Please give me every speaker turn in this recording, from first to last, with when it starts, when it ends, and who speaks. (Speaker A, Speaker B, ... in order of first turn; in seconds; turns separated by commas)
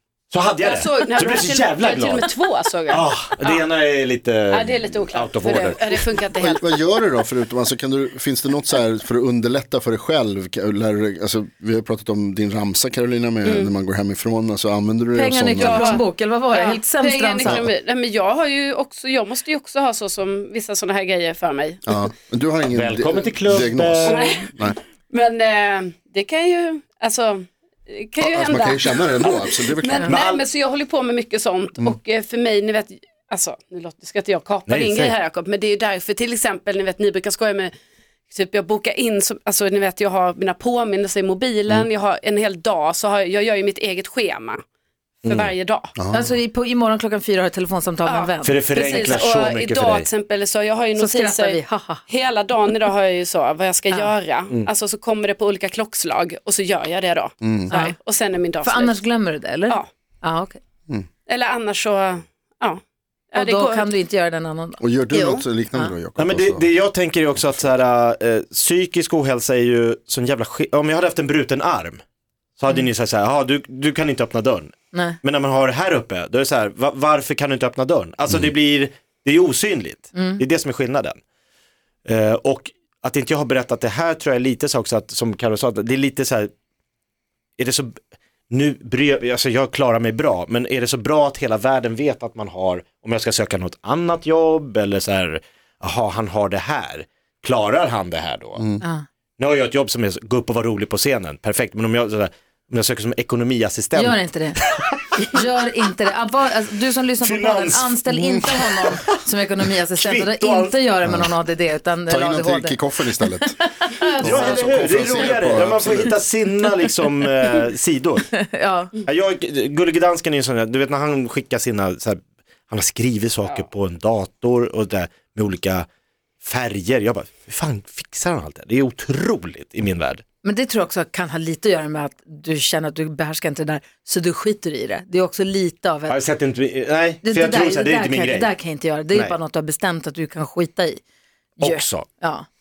Speaker A: 0.3-2.3, Speaker B: 0.6-3.6, Speaker A: 2.9-5.9, Speaker B: 4.5-6.7, Speaker C: 6.4-16.0, Speaker B: 13.4-13.7, Speaker D: 15.1-17.6, Speaker B: 15.6-21.9, Speaker C: 21.9-24.8, Speaker A: 22.7-24.5, Speaker B: 24.1-37.7, Speaker C: 28.2-30.1, Speaker A: 30.0-30.4, Speaker A: 34.6-35.1, Speaker B: 38.3-44.6, Speaker B: 45.2-45.9, Speaker C: 45.3-46.3, Speaker D: 46.1-49.0, Speaker B: 48.0-59.0, Speaker A: 48.4-50.1, Speaker D: 51.0-52.0, Speaker C: 57.4-57.7, Speaker D: 58.6-60.6, Speaker B: 61.3-62.8, Speaker B: 63.3-63.9, Speaker D: 63.3-64.8, Speaker C: 64.8-66.7, Speaker B: 65.1-65.5, Speaker A: 66.2-72.0, Speaker C: 67.4-67.7, Speaker A: 72.6-81.2, Speaker D: 74.9-75.2, Speaker D: 80.1-80.4, Speaker A: 82.0-86.5, Speaker A: 87.6-87.9, Speaker A: 88.5-98.7, Speaker A: 99.4-105.0, Speaker D: 103.9-104.6, Speaker D: 105.2-112.8, Speaker A: 107.2-109.0, Speaker A: 109.9-110.8, Speaker C: 111.0-111.3, Speaker C: 112.1-113.6, Speaker D: 113.3-114.5, Speaker C: 114.2-116.2, Speaker A: 114.2-118.3, Speaker D: 118.3-118.9, Speaker A: 119.0-125.8, Speaker A: 126.4-130.2, Speaker D: 130.4-136.2, Speaker A: 136.1-138.5, Speaker D: 137.2-141.0, Speaker D: 141.6-142.4, Speaker A: 141.6-142.1